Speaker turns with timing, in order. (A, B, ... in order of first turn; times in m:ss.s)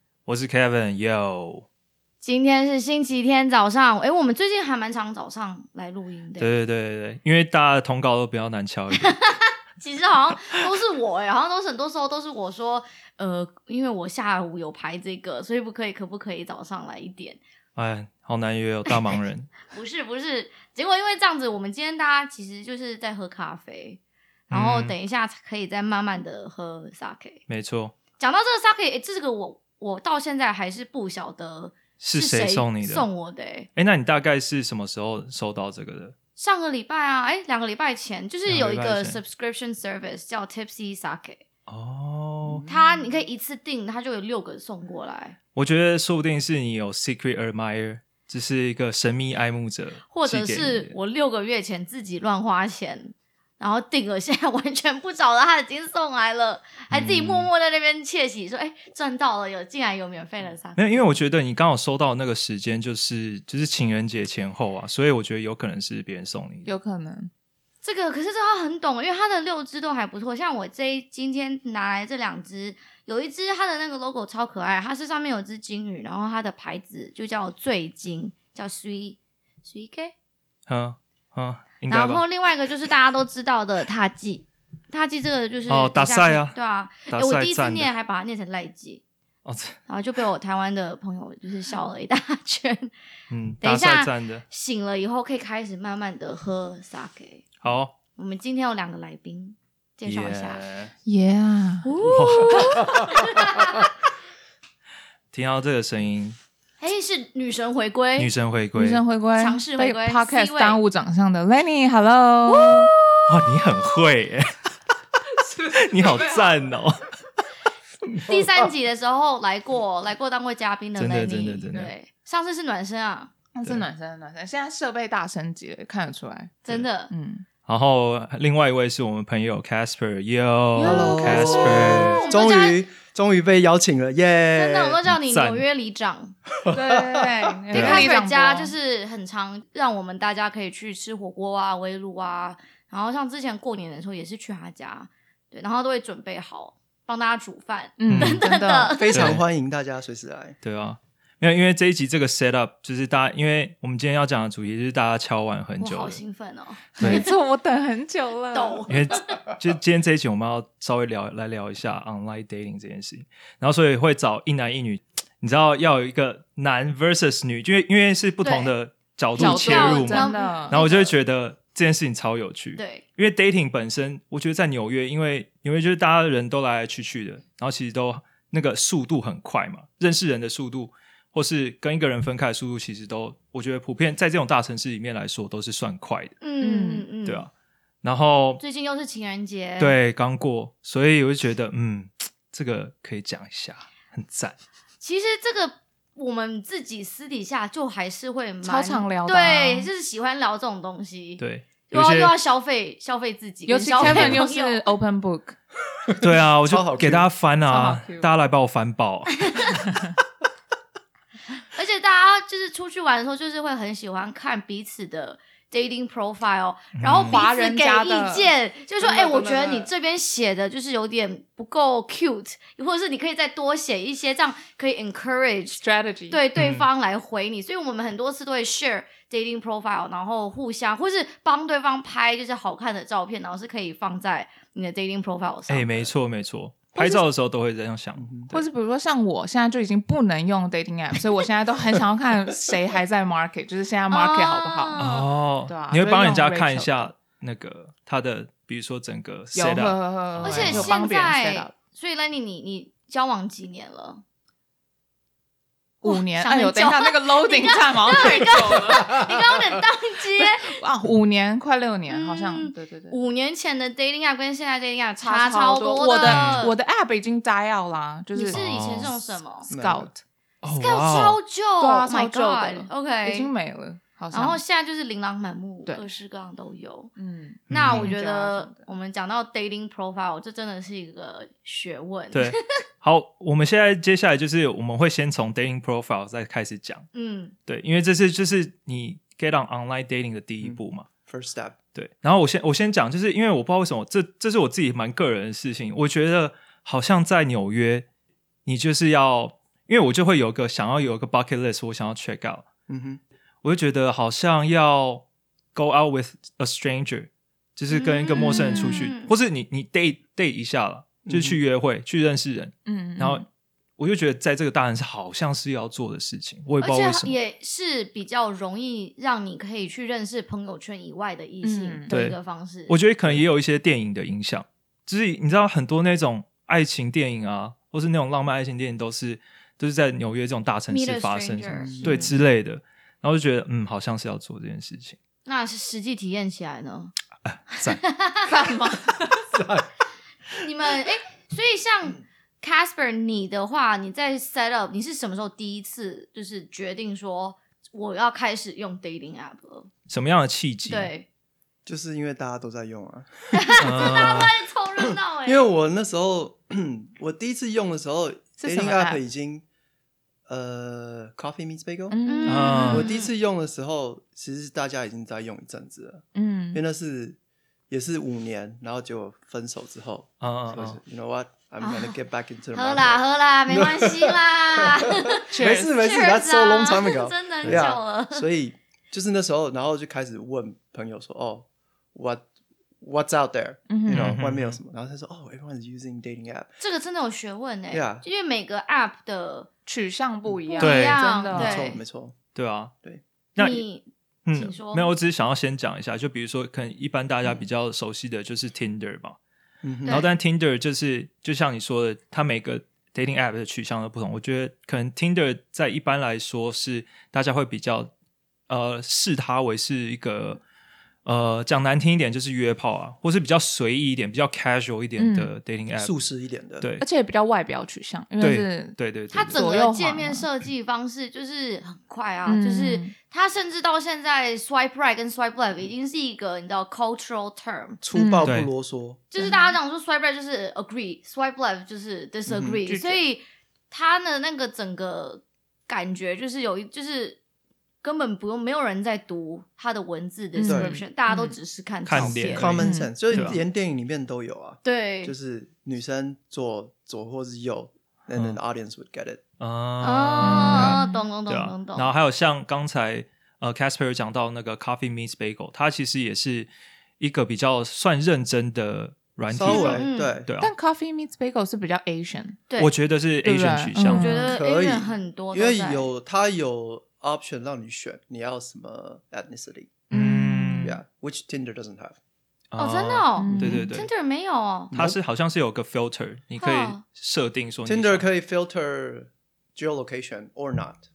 0:00.3-0:01.7 A
0:02.2-0:06.6 B
0:06.4-0:09.3 A
0:08.9-0:17.4 B
0:17.8-0:19.5 A
0:19.7-0:24.0 B
0:24.5-0:25.0 A
0:24.5-0:27.4 B
0:27.5-0:28.0 A
0:28.2-0:33.7 B
0:32.0-0:33.1 A
0:33.8-0:36.2 A
0:36.4-0:41.4 B
0:38.5-0:39.2 A
0:41.7-0:42.7 A
0:42.4-0:42.9 C
0:42.7-0:45.4 B
0:45.6-0:51.0 A
0:50.1-1:01.2 B
0:56.9-0:57.5 A
1:00.8-1:06.7 A
1:06.7-1:07.3 D
1:07.8-1:20.1 B
1:20.7-1:22.2 A
1:21.9-1:29.0 B
1:25.7-1:26.6 A
1:27.1-1:27.9 A
1:29.4-1:29.8 A
1:29.9-1:32.9 B
1:33.3-1:34.4 A
1:33.6-1:37.5 B
1:37.6-1:37.9 A
1:38.2-1:40.6 B
1:40.0-1:40.9 A
1:41.1-1:41.9 D
1:41.8-1:43.8 B
1:42.0-1:43.0 A
1:45.3-1:46.4 A
1:46.8-1:48.3 B
1:48.2-1:49.0 A
1:48.8-1:52.9 D
1:49.4-1:50.8 B
1:52.6-1:53.6 B
1:53.3-1:54.6 A
1:55.7-1:57.1 A
1:55.8-1:56.5 D
1:58.2-2:03.3 B
2:01.0-2:01.9 A
2:03.5-2:07.4 D
2:06.6-2:07.1 B
2:07.7-2:12.2 A
2:10.8-2:12.8 B
2:10.8-2:15.0 C
2:14.5-2:16.4 B
2:15.1-2:15.6 A
2:16.6-2:17.6 C
2:16.7-2:18.7 D
2:17.7-2:18.1 A
2:17.7-2:29.3 B
2:28.0-2:29.0 D
2:28.1-2:28.4 A
2:28.9-2:30.6 C
2:29.1-2:29.4 A
2:30.6-2:36.2 A
2:35.8-2:37.3 B
2:37.0-2:39.0 D
2:38.5-2:39.4 B
2:38.9-3:06.4 A
2:48.4-2:48.7 B
2:49.4-2:50.8 D
2:49.4-2:51.2 B
2:52.8-2:53.0 B
3:06.4-3:07.5 B
3:06.6-3:07.1 D
3:07.2-3:07.5 A
3:08.0-3:08.6 A
3:08.6-3:10.0 B
3:09.8-3:14.6 A
3:15.0-3:24.9 B
3:18.6-3:19.9 D
3:21.4-3:22.4 A
3:23.7-3:25.6 D
3:24.0-3:24.4 A
3:26.1-3:27.3 C
3:26.2-3:29.9 A
3:27.7-3:28.3 D
3:29.4-3:29.8 B
3:31.7-3:56.1 B
3:37.0-3:37.4 A
3:37.3-3:39.9 D
3:45.8-3:46.4 D
3:46.6-3:46.9 A
3:55.7-3:58.7 A
3:57.0-3:57.2 D
3:58.2-3:58.5 C
3:58.5-4:05.1 D
4:04.1-4:05.3 B
4:05.0-4:10.9 A
4:05.7-4:07.1 D
4:09.5-4:11.7 D
4:10.4-4:14.2 B
4:16.0-4:19.2 D
4:16.0-4:20.8 B
4:20.4-4:23.2 D
4:22.1-4:26.8 B
4:25.2-4:28.6 D
4:26.3-4:26.7 A
4:28.4-4:29.7 B
4:28.5-4:29.2 A
4:29.6-4:30.2 D
4:29.7-4:30.1 C
4:30.6-4:31.4 A
4:30.8-4:33.5 B
4:31.8-4:34.6 D
4:34.3-4:37.1 B
4:37.2-4:38.8 D
4:37.7-4:42.6 B
4:37.7-4:38.1 A
4:42.3-4:47.1 A
4:47.1-4:47.6 B
4:47.7-4:51.1 A
4:50.6-4:51.8 C
4:51.9-4:58.1 A
4:58.7-5:02.7 A
5:02.9-5:03.2 C
5:03.6-5:13.5 A
5:07.9-5:09.3 B
5:08.4-5:09.1 D
5:11.3-5:11.6 C
5:12.9-5:13.4 D
5:14.0-5:17.4 A
5:16.8-5:23.0 B
5:21.6-5:22.1 D
5:22.1-5:35.2 A
5:30.9-5:32.3 B
5:31.8-5:32.4 C
5:35.4-5:37.1 B
5:37.4-5:38.0 A
5:37.8-5:38.7 B
5:38.4-5:39.5 D
5:39.5-5:39.9 C
5:40.6-5:49.9 B
5:50.1-5:51.1 A
5:50.9-5:51.3 B
5:51.9-5:54.5 C
5:53.5-5:55.6 B
5:53.8-5:54.5 A
5:55.0-5:59.6 C
5:58.6-5:59.2 D
6:00.5-6:02.2 C
6:02.1-6:03.1 D
6:02.3-6:03.3 B
6:02.5-6:03.1 A
6:02.9-6:07.4 C
6:06.4-6:06.8 D
6:07.9-6:22.4 C
6:10.4-6:11.0 A
6:11.8-6:12.2 B
6:12.7-6:18.5 B
6:15.5-6:15.9 D
6:23.0-6:26.7 C
6:23.9-6:24.4 D
6:24.1-6:24.8 A
6:26.8-6:29.7 B
6:27.9-6:28.2 C
6:29.9-6:31.9 D
6:30.7-6:32.0 B
6:30.8-6:31.2 A
6:31.5-6:32.4 C
6:32.6-6:32.9 A
6:33.6-6:33.8 A
6:33.6-6:35.1 B
6:34.5-6:39.4 A
6:39.8-6:40.2 C
6:40.1-6:48.1 A
6:48.7-6:50.6 A
6:51.2-6:56.1 A
6:55.2-6:55.5 D
6:56.0-6:56.9 C
6:56.8-6:57.0 A
6:57.0-6:59.0 D
6:58.4-6:59.6 A
6:59.3-7:08.0 B
6:59.5-7:00.5 D
7:02.5-7:03.1 D
7:08.0-7:09.2 C
7:08.1-7:08.5 D
7:08.4-7:08.7 A
7:09.3-7:17.4 B
7:09.4-7:09.8 D
7:12.5-7:12.8 C
7:12.9-7:13.2 D
7:18.0-7:22.7 B
7:20.5-7:21.6 D
7:20.7-7:21.0 C
7:22.0-7:23.6 A
7:22.2-7:29.4 C
7:22.8-7:23.6 D
7:24.8-7:25.4 B
7:29.6-7:40.7 A
7:30.0-7:32.1 B
7:30.4-7:31.2 D
7:39.5-7:40.5 C
7:39.6-7:40.4 B
7:40.6-7:42.6 D
7:42.8-7:44.4 A
7:43.4-7:44.6 D
7:44.1-7:46.1 B
7:44.4-7:50.0 C
7:50.1-7:51.0 A
7:50.1-7:50.9 D
7:50.8-7:52.2 C
7:52.7-7:54.1 A
7:52.8-7:54.9 B
7:53.4-7:53.9 D
7:53.6-7:53.8 C
7:54.9-7:55.2 C
7:54.9-7:58.3 A
7:56.6-7:57.0 B
7:57.9-8:01.1 C